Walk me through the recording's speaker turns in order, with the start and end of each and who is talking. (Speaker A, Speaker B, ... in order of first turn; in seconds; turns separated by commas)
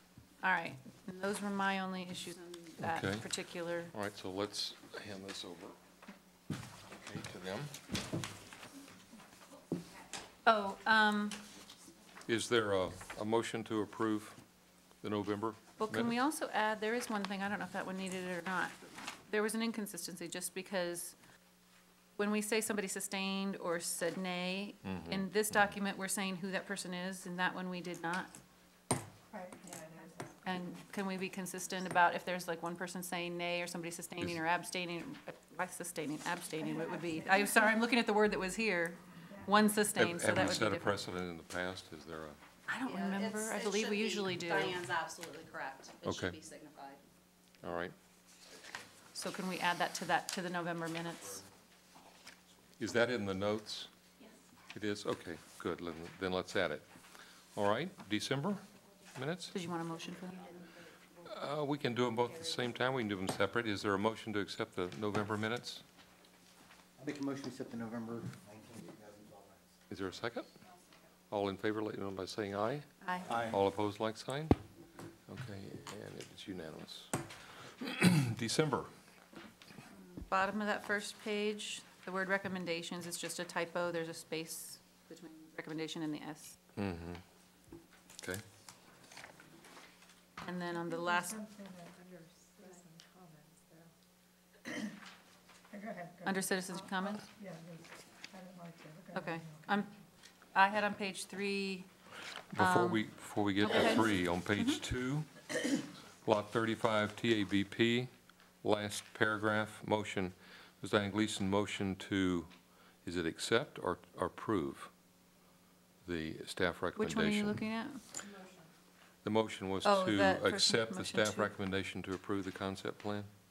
Speaker A: 0.4-3.9, Speaker B: 2.8-3.3, Speaker B: 3.9-5.8, Speaker B: 6.9-7.7, Speaker A: 10.4-11.4, Speaker B: 12.3-14.4, Speaker B: 15.0-16.1, Speaker A: 15.8-21.1, Speaker A: 22.2-28.3, Speaker B: 24.8-25.7, Speaker C: 29.3-30.6, Speaker A: 30.4-41.0, Speaker C: 36.6-37.8, Speaker C: 39.2-39.6, Speaker B: 40.0-42.4, Speaker A: 42.7-44.8, Speaker D: 42.9-47.0, Speaker B: 46.0-46.4, Speaker B: 47.6-48.0, Speaker A: 49.1-51.5, Speaker B: 52.8-53.9, Speaker B: 54.7-56.9, Speaker B: 57.5-58.6, Speaker B: 59.1-59.6, Speaker A: 59.5-60.6, Speaker B: 61.3-65.8, Speaker E: 67.0-69.8, Speaker B: 69.9-70.5, Speaker B: 71.3-72.9, Speaker A: 73.0-73.4, Speaker E: 73.3-73.6, Speaker B: 73.5-74.6, Speaker B: 75.3-78.9, Speaker A: 80.1-86.6, Speaker B: 86.8-87.2, Speaker A: 90.4-91.4, Speaker C: 90.8-93.9, Speaker C: 94.7-94.9, Speaker C: 95.7-99.9, Speaker A: 96.2-97.2, Speaker A: 99.1-99.9, Speaker A: 100.5-101.9, Speaker B: 102.5-108.1, Speaker A: 102.5-104.8, Speaker B: 108.6-112.5, Speaker B: 113.0-114.9, Speaker B: 116.0-117.6, Speaker A: 117.0-118.0, Speaker B: 119.2-123.3, Speaker A: 119.8-121.5